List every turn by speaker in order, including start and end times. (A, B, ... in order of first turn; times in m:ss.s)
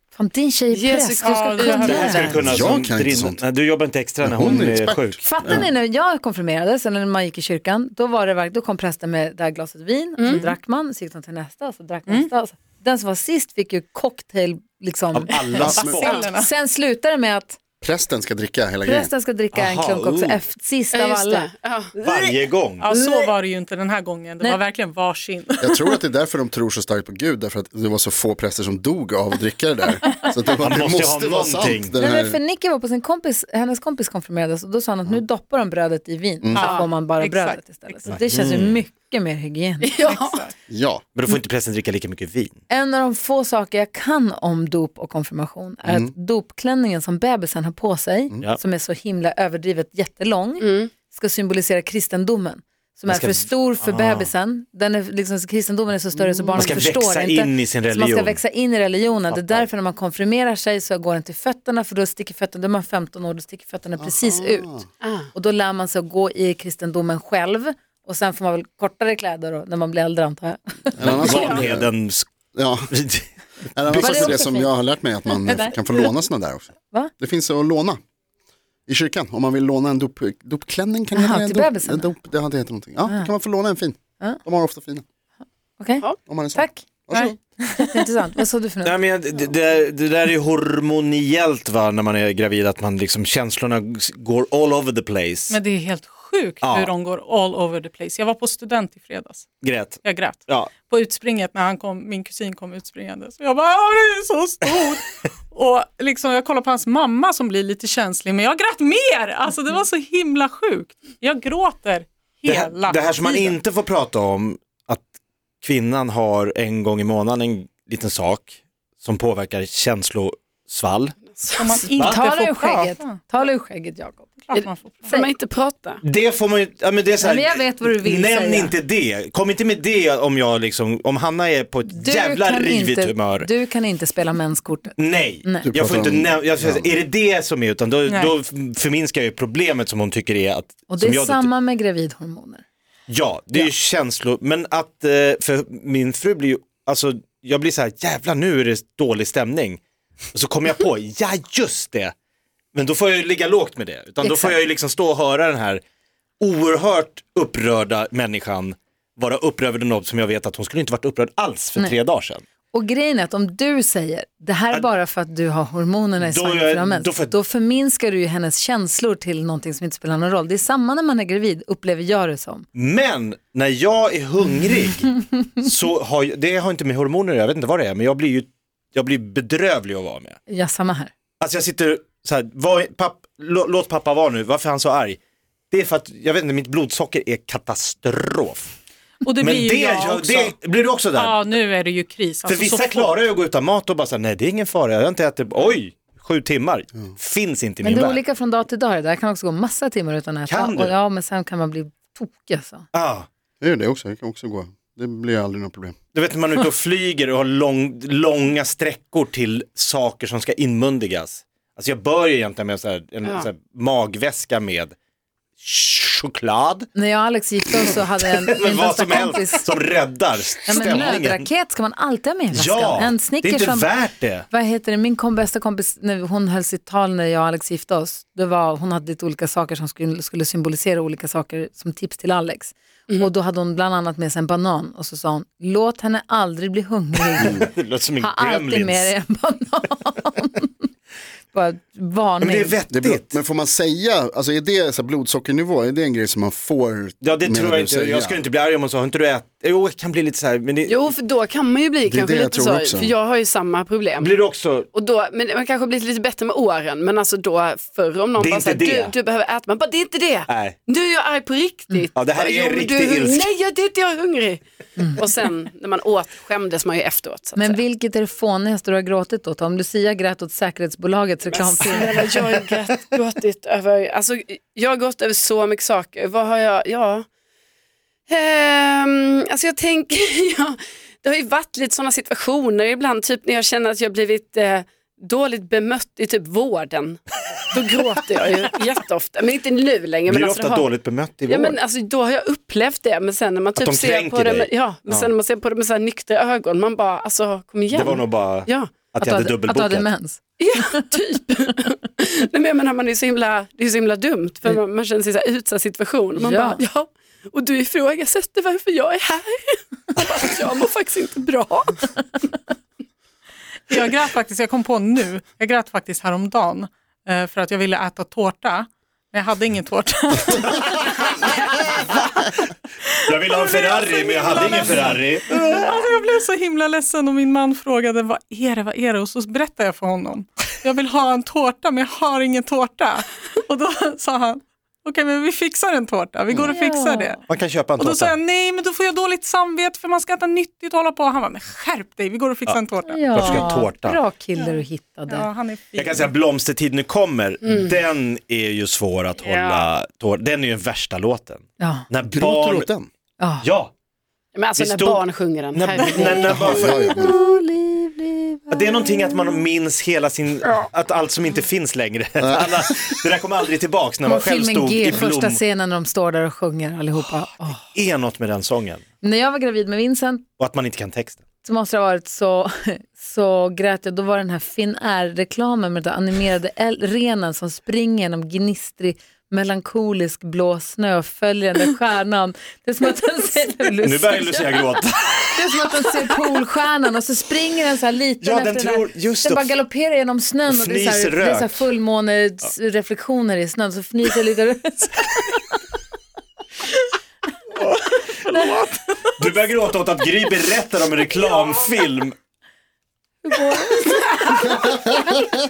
0:00.1-0:02.4 A
0:00.7-0:01.9 B
0:01.2-0:02.3 C
0:01.8-0:05.2 D
0:02.2-0:03.4 E
0:04.2-0:05.7 E
0:05.2-0:17.6 A
0:10.3-0:10.5 C
0:15.1-0:16.2 D
0:15.6-0:16.0 E
0:15.6-0:16.5 C
0:17.8-0:19.1 E
0:18.8-0:22.3 A
0:19.5-0:20.4 D
0:20.9-0:21.9 B
0:22.0-0:22.9 D
0:22.8-0:25.9 C
0:25.6-0:32.4 E
0:30.6-0:31.9 D
0:32.0-0:40.4 A
0:36.4-0:36.8 E
0:36.5-0:38.2 C
0:38.3-0:38.8 E
0:39.9-0:40.3 B
0:40.0-0:40.5 C
0:40.7-0:41.0 E
0:41.1-0:42.6 D
0:42.7-1:04.8 A
0:45.8-0:46.1 E
0:50.6-0:50.9 B
0:53.1-0:54.3 D
0:56.1-0:56.8 E
0:56.5-0:58.4 D
0:59.3-0:59.7 D
1:04.0-1:04.8 E
1:05.0-1:05.3 B
1:05.3-1:11.3 A
1:11.0-1:11.9 E
1:11.0-1:12.3 D
1:12.5-1:12.9 E
1:12.9-1:14.3 D
1:13.7-1:18.0 E
1:13.9-1:15.8 A
1:18.9-1:25.0 E
1:21.1-1:22.1 A
1:25.8-1:26.8 A
1:26.3-1:27.4 E
1:27.1-1:28.1 C
1:27.8-1:29.0 A
1:28.8-1:35.6 D
1:35.5-1:39.5 C
1:36.6-1:36.9 D
1:39.6-1:40.7 D
1:40.0-1:53.6 C
1:52.5-2:01.2 D
2:01.5-2:03.2 C
2:01.9-2:02.2 D
2:02.0-2:04.3 A
2:04.4-2:05.2 C
2:05.0-2:05.3 A
2:05.2-2:06.0 B
2:06.0-2:13.5 D
2:07.2-2:08.7 A
2:11.9-2:15.7 A
2:15.0-2:21.5 D
2:15.6-2:16.9 E
2:20.9-2:22.6 A
2:23.1-2:29.8 D
2:30.3-2:32.1 D
2:32.7-2:35.8 D
2:34.2-2:34.6 A
2:36.4-2:42.4 D
2:42.7-2:52.7 A
2:46.2-2:47.3 D
2:52.7-3:00.4 D
3:00.5-3:01.1 A
3:01.4-3:05.2 D
3:05.7-3:08.7 D
3:09.2-3:10.5 C
3:09.4-3:11.4 D
3:11.2-3:13.2 C
3:12.5-3:18.2 D
3:17.8-3:22.8 A
3:20.5-3:21.0 D
3:22.9-3:23.3 D
3:23.6-3:25.9 E
3:26.1-3:34.9 D
3:35.6-3:36.9 D
3:36.9-3:39.7 A
3:38.5-3:41.5 D
3:40.7-3:43.9 A
3:42.5-3:44.5 D
3:44.5-3:57.6 A
3:57.4-3:59.1 D
3:58.2-4:00.8 A
4:01.5-4:02.8 A
4:02.4-4:03.4 D
4:02.9-4:08.4 E
4:07.2-4:11.1 D
4:10.9-4:14.4 B
4:12.0-4:13.1 E
4:14.2-4:14.9 D
4:14.9-4:24.6 B
4:18.4-4:19.1 D
4:20.5-4:20.8 D
4:22.1-4:23.5 D
4:25.1-4:27.8 B
4:27.5-4:32.4 A
4:31.5-4:37.3 B
4:38.3-4:47.2 B
4:47.7-4:50.9 B
4:50.3-4:51.8 D
4:51.5-4:59.0 B
4:53.8-4:55.3 D
4:57.9-5:00.1 D
4:59.2-5:00.4 A
5:00.6-5:11.9 B
5:06.4-5:06.8 A
5:13.9-5:22.4 C
5:23.2-5:25.6 D
5:23.3-5:37.4 C
5:36.7-5:37.4 A
5:37.5-5:38.3 D
5:38.0-5:43.7 C
5:43.1-5:45.5 A
5:43.3-5:44.2 D
5:44.6-5:46.3 C
5:46.0-5:52.9 D
5:49.5-5:49.8 B
5:51.8-5:52.1 A
5:52.3-5:53.1 E
5:53.4-5:53.6 A
5:53.6-5:53.9 D
5:54.5-5:56.5 B
5:54.8-5:55.2 D
5:55.7-5:57.1 D
5:56.0-5:59.4 A
5:56.3-5:57.4 E
5:58.7-6:05.6 D
6:02.4-6:03.1 E
6:04.2-6:07.8 A
6:07.9-6:09.0 D
6:09.2-6:10.4 A
6:10.6-6:11.4 D
6:11.6-6:24.8 A
6:24.0-6:25.6 D
6:25.5-6:35.4 A
6:28.4-6:29.8 D
6:30.7-6:31.9 D
6:37.7-6:39.3 C
6:39.4-6:42.3 D
6:41.3-6:41.6 C
6:43.4-6:45.0 A
6:44.0-6:45.1 C